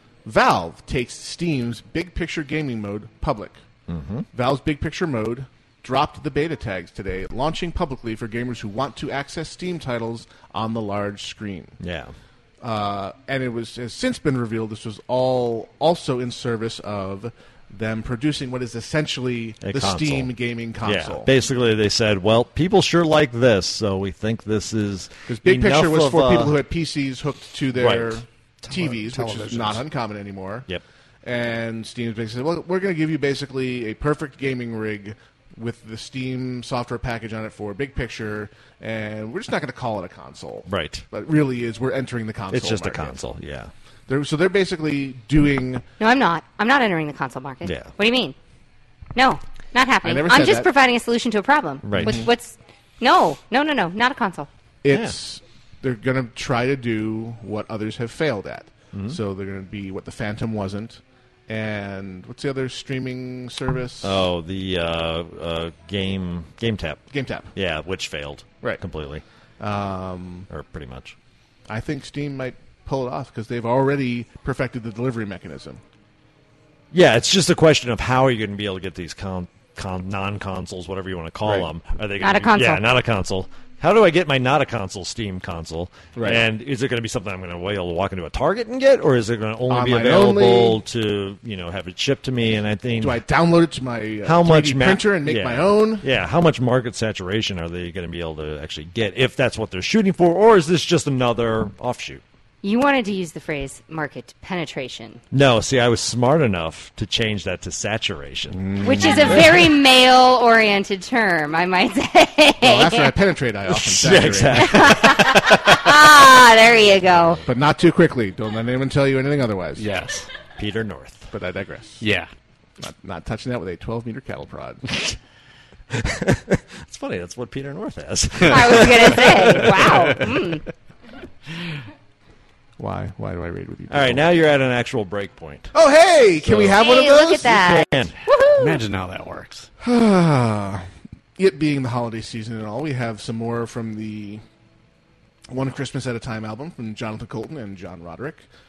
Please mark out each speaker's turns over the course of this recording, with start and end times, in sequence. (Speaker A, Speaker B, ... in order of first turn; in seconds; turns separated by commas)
Speaker A: 0.2-3.6, Speaker B: 3.9-4.3, Speaker A: 4.3-11.8, Speaker B: 11.8-12.1, Speaker A: 12.6-21.3, Speaker B: 19.6-26.6, Speaker A: 25.3-30.7, Speaker B: 27.7-28.2, Speaker C: 28.6-29.8, Speaker A: 31.2-43.1, Speaker B: 40.7-41.0, Speaker B: 42.5-43.7, Speaker A: 44.1-45.8, Speaker D: 46.0-48.4, Speaker B: 47.6-47.9, Speaker D: 49.1-54.5, Speaker A: 50.0-50.7, Speaker B: 51.8-52.3, Speaker A: 52.0-52.3, Speaker A: 54.8-64.3, Speaker B: 54.9-55.2, Speaker B: 58.9-59.2, Speaker B: 64.0-67.0, Speaker A: 67.1-67.5, Speaker B: 67.5-69.2, Speaker A: 69.6-70.5, Speaker B: 70.5-71.2, Speaker A: 71.7-75.8, Speaker B: 76.9-93.2, Speaker A: 81.4-81.7, Speaker D: 82.2-82.8, Speaker A: 86.2-86.5, Speaker A: 89.7-90.8, Speaker A: 93.0-96.0, Speaker B: 94.2-102.2, Speaker D: 102.6-105.2, Speaker B: 105.3-109.7, Speaker A: 108.5-109.7, Speaker D: 108.8-113.1, Speaker A: 112.6-115.0, Speaker B: 113.7-116.0, Speaker D: 114.6-117.4, Speaker B: 117.0-117.5, Speaker A: 117.5-119.9, Speaker C: 119.8-120.3, Speaker B: 120.6-121.3, Speaker A: 121.3-122.0, Speaker C: 122.0-122.3, Speaker A: 122.8-124.9, Speaker B: 125.9-130.2, Speaker D: 128.5-130.6, Speaker C: 129.7-130.3, Speaker A: 132.8-134.3, Speaker B: 133.9-135.7, Speaker A: 135.7-137.6, Speaker B: 136.4-138.2, Speaker D: 136.7-138.8, Speaker C: 138.6-139.7, Speaker A: 139.8-140.9, Speaker A: 141.4-144.4, Speaker A: 145.5-148.5